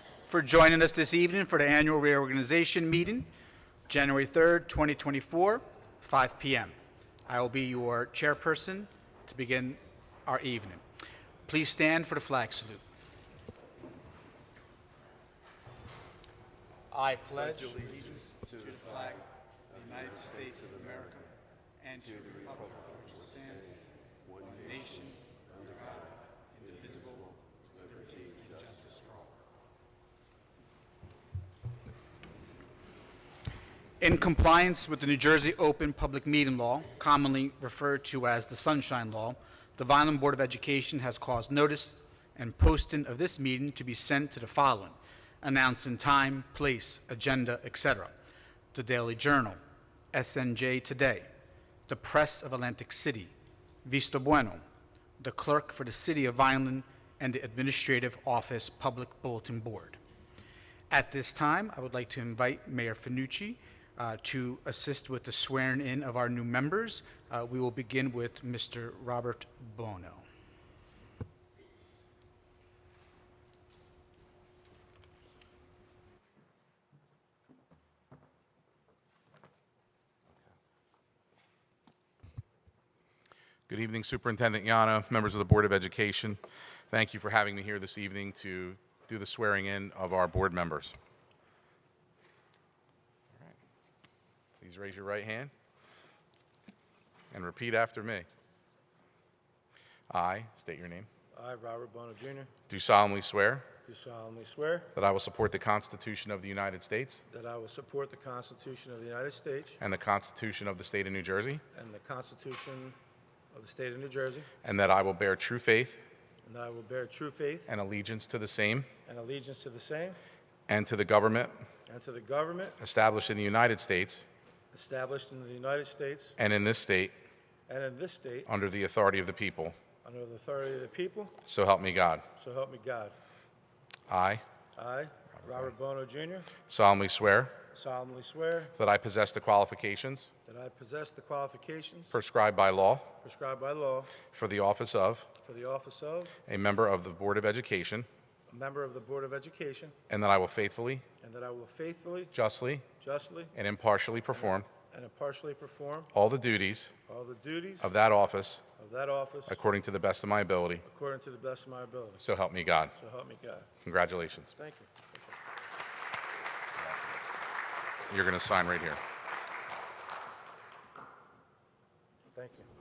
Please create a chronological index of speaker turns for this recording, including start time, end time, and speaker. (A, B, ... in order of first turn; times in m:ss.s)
0:00.3-0:03.3 A
0:03.9-0:06.8 A
0:07.3-0:10.8 A
0:11.5-0:12.8 A
0:16.9-0:29.3 A
0:34.0-0:48.1 A
0:48.7-0:49.6 A
0:50.1-0:51.3 A
0:51.9-0:53.3 A
0:53.8-0:54.6 A
0:55.2-1:00.0 A
1:00.9-1:10.3 A
1:23.7-1:31.0 B
1:34.6-1:35.5 B
1:37.3-1:38.3 B
1:40.1-1:41.1 B
1:41.3-1:42.5 C
1:42.7-1:43.7 B
1:43.9-1:44.9 C
1:45.0-1:47.2 B
1:47.3-1:49.8 C
1:49.8-1:51.6 B
1:51.7-1:53.0 C
1:53.5-1:54.5 C
1:54.6-1:56.0 B
1:56.4-1:57.7 C
1:57.7-1:58.9 B
1:59.1-2:00.2 C
2:00.7-2:01.6 B
2:01.9-2:02.8 C
2:02.8-2:04.3 B
2:04.7-2:06.4 C
2:06.4-2:07.2 B
2:07.7-2:08.5 C
2:08.5-2:09.8 B
2:10.0-2:11.4 C
2:11.4-2:12.3 B
2:12.4-2:13.2 C
2:14.1-2:14.4 B
2:14.8-2:16.5 C
2:16.7-2:17.6 B
2:17.7-2:18.7 C
2:18.8-2:20.3 B
2:20.5-2:22.1 C
2:22.1-2:23.1 B
2:23.2-2:24.2 C
2:24.3-2:25.3 B
2:25.4-2:26.3 C
2:26.5-2:28.1 B
2:28.5-2:30.0 C
2:30.1-2:31.0 B
2:31.2-2:32.3 C
2:32.3-2:32.9 B
2:33.0-2:33.5 C
2:33.6-2:34.7 B
2:34.9-2:36.1 C
2:36.1-2:36.9 B
2:37.1-2:37.9 C
2:37.8-2:38.6 B
2:38.8-2:39.6 C
2:39.5-2:40.8 B
2:40.9-2:42.2 C
2:42.2-2:42.9 B
2:43.0-2:43.7 C
2:43.8-2:44.6 B
2:44.6-2:45.4 C
2:48.1-2:49.0 B
2:52.3-2:52.7 C